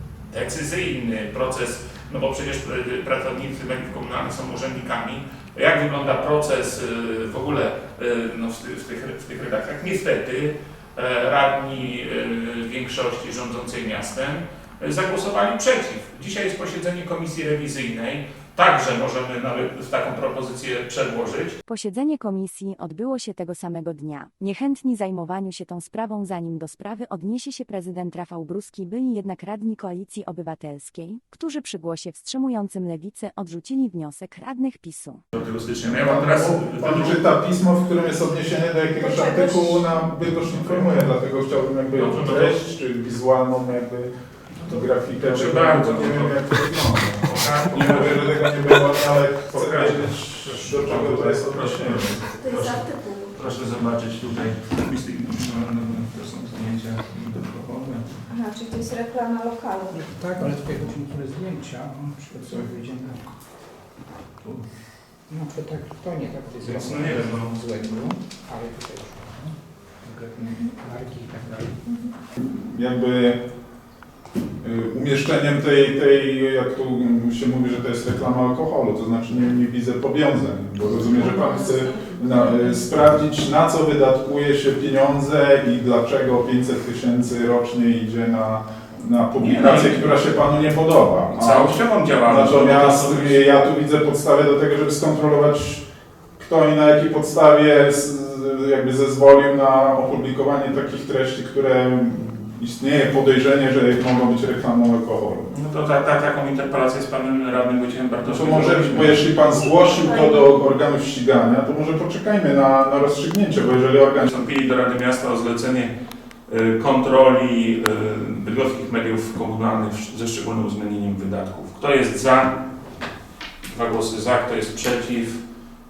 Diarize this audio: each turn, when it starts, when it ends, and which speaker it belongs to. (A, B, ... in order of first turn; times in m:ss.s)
0:00.3-0:21.6 A
0:21.7-0:35.2 B
0:35.3-0:37.2 A
0:35.9-0:52.2 C
0:39.0-0:39.9 D
0:42.0-0:42.6 A
0:44.6-0:48.9 A
0:49.5-0:58.2 A
0:52.4-0:53.4 D
0:58.3-1:00.1 D
1:00.1-1:03.1 E
1:05.3-1:06.9 E
1:06.6-1:07.6 A
1:07.6-1:08.6 E
1:10.4-1:10.6 E
1:12.4-1:13.4 C
1:14.6-1:35.8 C
1:21.0-1:22.6 D
1:29.4-1:30.2 A
1:31.3-1:33.4 A
1:36.4-1:45.5 C
1:45.5-1:49.5 A
1:48.2-1:54.3 C
1:49.7-1:50.5 D
1:54.2-1:55.9 A
1:56.5-2:02.5 A
2:03.7-2:05.4 A